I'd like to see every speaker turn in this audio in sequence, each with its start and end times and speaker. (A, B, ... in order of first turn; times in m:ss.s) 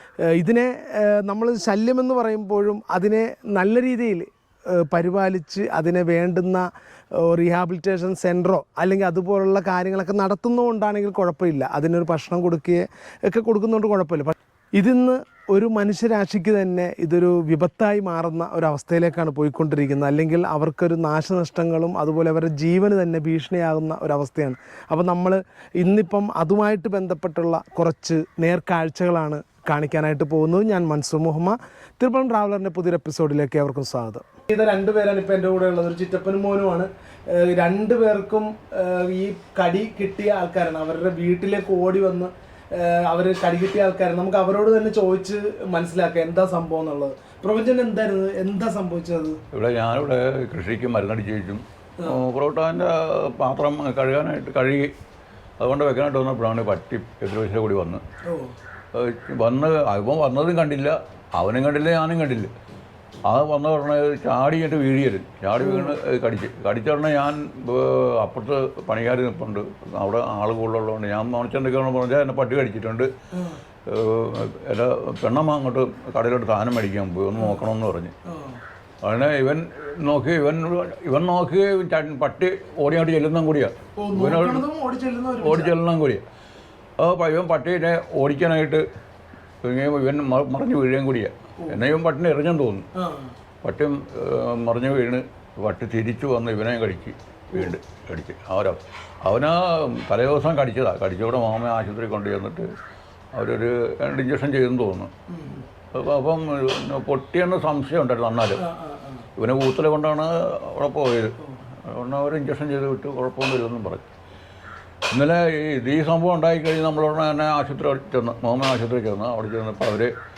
0:00.3-0:06.6 A
0:07.2-0:49.4 A
0:49.5-0:54.9 B
0:55.6-0:58.0 B
0:58.9-1:02.5 B
1:03.3-1:13.1 B
1:05.6-1:05.9 A
1:13.9-1:18.1 B
1:17.4-1:17.6 A
1:18.3-1:18.6 A
1:19.0-1:24.6 B
1:24.0-1:25.7 A
1:25.4-1:26.2 B
1:27.0-1:28.8 B
1:29.6-1:32.9 B
1:33.0-1:33.3 A
1:33.6-1:42.7 B
1:43.3-1:45.1 B
1:45.3-1:45.7 A
1:45.9-1:48.6 B
1:48.6-1:49.3 A
1:49.4-1:51.3 B
1:51.9-1:54.1 B
1:55.1-2:00.1 B